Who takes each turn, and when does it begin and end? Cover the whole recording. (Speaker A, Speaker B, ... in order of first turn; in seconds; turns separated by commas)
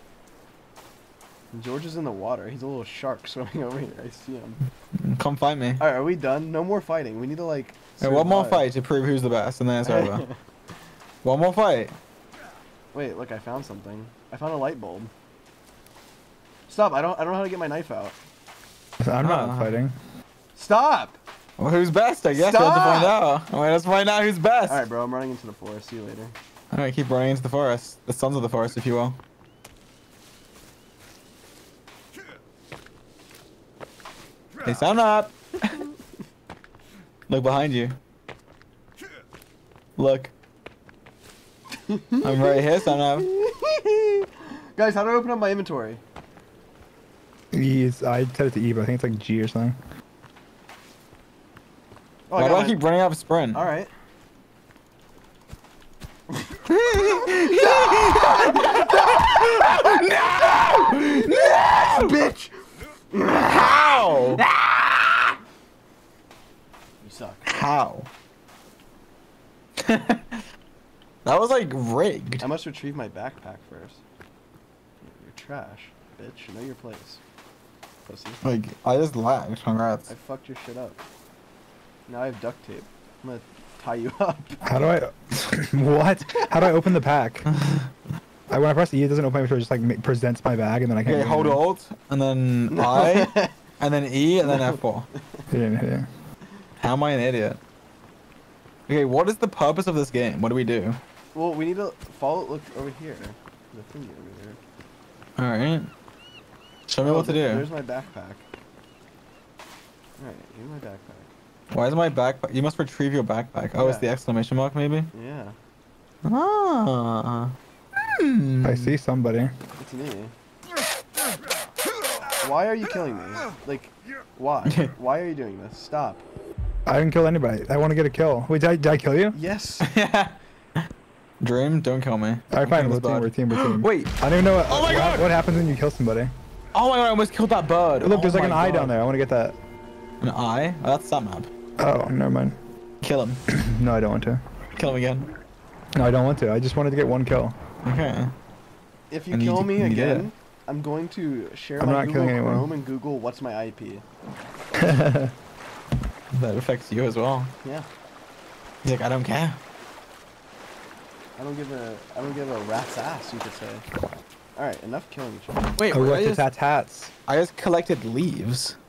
Speaker A: 1.5-4.6, Speaker B: 5.0-5.8, Speaker A: 5.8-8.7, Speaker B: 8.0-10.2, Speaker A: 9.8-10.4, Speaker B: 11.2-12.0, Speaker A: 12.9-15.1, Speaker A: 16.7-18.1, Speaker C: 19.0-19.9, Speaker B: 19.2-19.8, Speaker A: 20.5-21.2, Speaker B: 21.6-24.8, Speaker A: 22.3-23.1, Speaker A: 24.7-26.4, Speaker B: 26.7-29.2, Speaker B: 34.6-35.8, Speaker B: 37.3-38.0, Speaker B: 40.0-40.3, Speaker A: 41.8-42.6, Speaker B: 42.2-43.3, Speaker A: 43.1-46.0, Speaker C: 47.5-49.8, Speaker A: 52.3-52.8, Speaker B: 52.4-53.6, Speaker A: 53.5-53.9, Speaker A: 56.3-62.5, Speaker B: 56.7-62.2, Speaker A: 63.1-65.3, Speaker B: 63.4-64.4, Speaker A: 67.0-67.5, Speaker B: 67.5-68.1, Speaker B: 69.8-70.4, Speaker B: 71.2-72.4, Speaker A: 72.4-74.0, Speaker A: 75.0-77.2, Speaker A: 78.0-78.4, Speaker B: 78.4-80.1, Speaker A: 80.1-81.0, Speaker A: 82.1-84.6, Speaker C: 84.6-87.5, Speaker B: 87.5-87.9, Speaker C: 88.5-91.6, Speaker B: 91.0-95.1, Speaker A: 92.7-93.6, Speaker C: 95.5-96.1, Speaker B: 96.8-97.6, Speaker B: 98.9-101.0, Speaker A: 101.3-104.6, Speaker B: 105.4-105.9, Speaker B: 106.9-107.7, Speaker A: 107.0-108.4, Speaker A: 110.2-111.3, Speaker B: 111.7-115.1, Speaker A: 113.8-114.1, Speaker A: 115.1-115.5, Speaker B: 116.2-117.5, Speaker B: 118.1-118.9, Speaker C: 118.6-119.5, Speaker A: 119.8-120.3, Speaker A: 122.4-126.2, Speaker B: 124.6-124.9, Speaker C: 126.9-129.4, Speaker A: 129.3-129.9, Speaker B: 129.8-130.9, Speaker B: 131.4-134.1, Speaker C: 132.5-136.3, Speaker B: 134.7-135.3, Speaker B: 136.7-138.9, Speaker C: 138.0-139.6, Speaker B: 140.2-141.5, Speaker C: 141.8-142.6, Speaker B: 143.0-143.4, Speaker C: 143.5-144.4, Speaker B: 144.8-145.3, Speaker C: 145.9-147.6, Speaker B: 147.8-148.3, Speaker A: 149.1-154.0, Speaker B: 149.3-150.3, Speaker C: 151.8-152.7, Speaker C: 154.8-155.3, Speaker B: 156.3-157.5, Speaker B: 158.8-159.6, Speaker A: 161.4-163.9, Speaker A: 164.6-165.7, Speaker B: 165.8-166.4, Speaker C: 165.9-167.1, Speaker B: 167.3-168.8